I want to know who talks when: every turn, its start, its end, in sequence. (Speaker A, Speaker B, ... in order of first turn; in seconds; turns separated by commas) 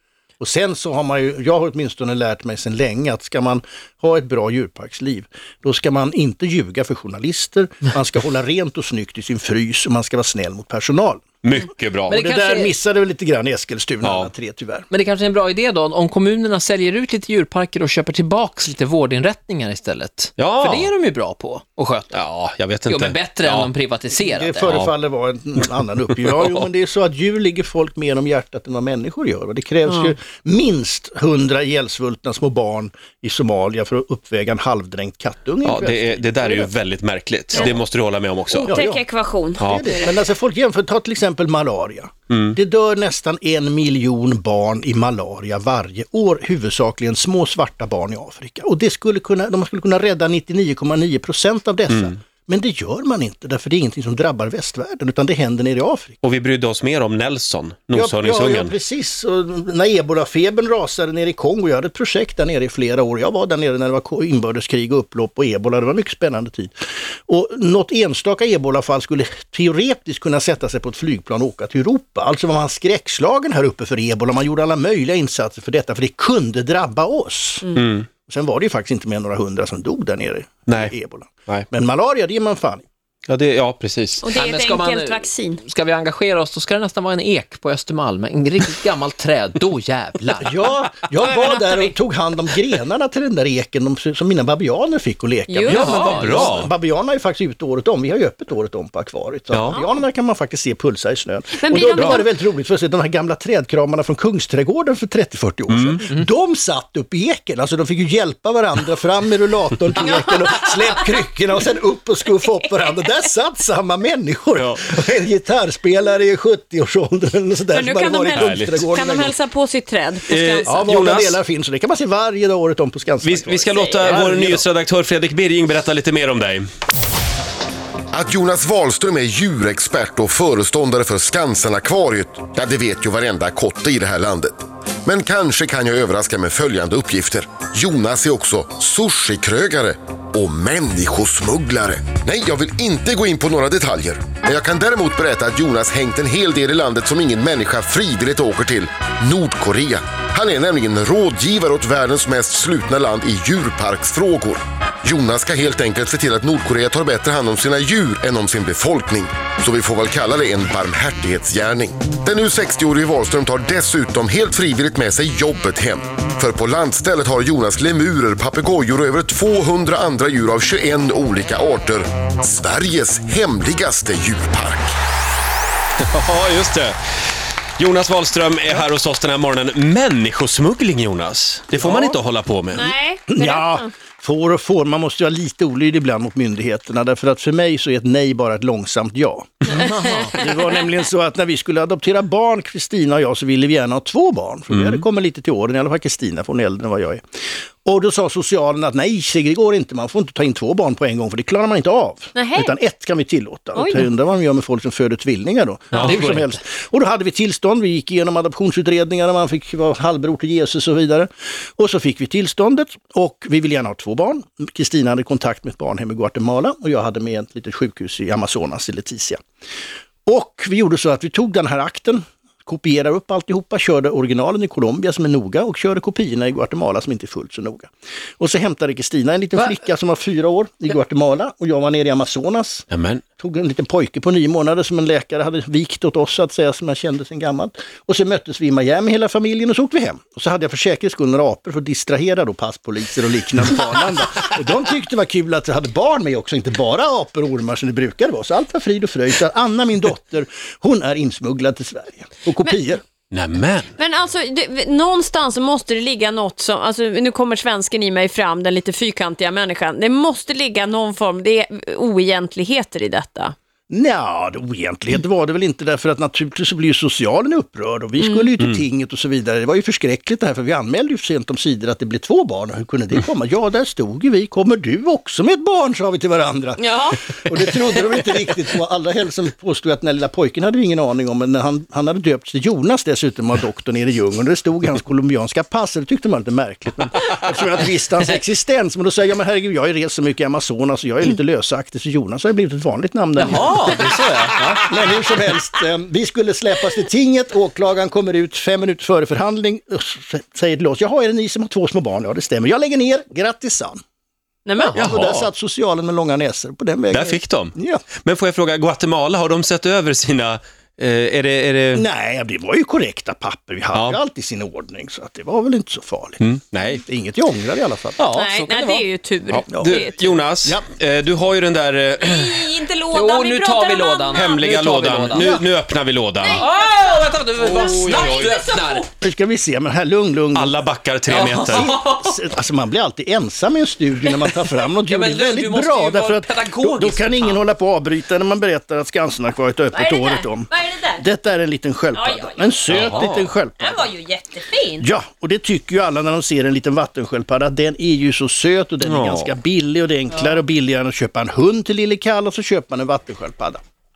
Speaker A: 0.4-11.2, Speaker B: 11.4-12.2, Speaker C: 12.1-12.8, Speaker A: 12.1-14.9, Speaker B: 14.0-14.3, Speaker C: 14.9-22.2, Speaker B: 20.4-20.9, Speaker B: 22.1-23.7, Speaker C: 22.9-24.7, Speaker A: 24.2-36.7, Speaker B: 25.6-26.6, Speaker B: 35.6-38.8, Speaker D: 38.5-40.1, Speaker A: 38.7-39.0, Speaker B: 39.6-40.0, Speaker A: 39.6-56.2, Speaker B: 42.3-42.6, Speaker B: 51.9-52.1, Speaker B: 56.2-58.7, Speaker A: 57.9-82.9, Speaker B: 77.8-78.1, Speaker B: 80.7-80.9, Speaker B: 83.3-84.3, Speaker D: 84.2-85.6, Speaker C: 84.3-90.6, Speaker A: 90.4-119.3, Speaker D: 91.2-91.9, Speaker D: 95.5-95.9, Speaker B: 95.7-96.7, Speaker C: 95.7-96.5, Speaker B: 99.5-99.8, Speaker D: 101.6-102.3, Speaker B: 105.7-106.1, Speaker D: 110.0-110.4, Speaker B: 114.6-114.8, Speaker D: 117.7-120.9, Speaker B: 118.3-118.9, Speaker B: 120.3-121.4, Speaker A: 120.7-124.7, Speaker B: 123.2-126.7, Speaker E: 128.1-175.0, Speaker B: 176.0-177.0, Speaker B: 177.8-182.9, Speaker A: 181.8-182.2, Speaker D: 182.7-183.9, Speaker A: 183.3-197.2, Speaker C: 189.7-190.3, Speaker D: 189.8-190.4, Speaker B: 194.7-195.0, Speaker A: 197.8-219.4, Speaker D: 202.4-202.7, Speaker D: 203.8-204.1, Speaker C: 205.9-206.5, Speaker A: 220.3-232.9, Speaker B: 232.9-233.2, Speaker A: 233.4-253.0, Speaker B: 253.3-253.9, Speaker D: 254.0-263.6, Speaker A: 263.9-294.0, Speaker D: 268.2-268.5, Speaker D: 276.8-277.2, Speaker C: 293.4-294.9, Speaker A: 294.8-304.0, Speaker D: 304.7-305.0, Speaker A: 304.8-308.0, Speaker B: 305.0-305.5, Speaker B: 307.1-312.1, Speaker A: 311.9-316.4, Speaker B: 313.9-314.2, Speaker B: 316.4-317.1, Speaker A: 317.0-318.3, Speaker C: 318.2-319.1, Speaker D: 318.3-320.4, Speaker B: 319.5-322.7, Speaker A: 319.7-320.0, Speaker D: 322.2-324.7, Speaker C: 323.1-325.5, Speaker B: 324.3-326.6, Speaker A: 325.3-325.7, Speaker D: 326.4-329.1, Speaker C: 326.5-329.1, Speaker B: 327.6-328.6, Speaker A: 329.2-344.1, Speaker B: 330.6-332.0, Speaker C: 331.3-332.3, Speaker C: 335.0-337.6, Speaker D: 339.9-341.2, Speaker D: 342.1-343.2, Speaker B: 342.9-343.5, Speaker D: 343.8-345.1, Speaker A: 345.0-353.8, Speaker B: 349.0-349.5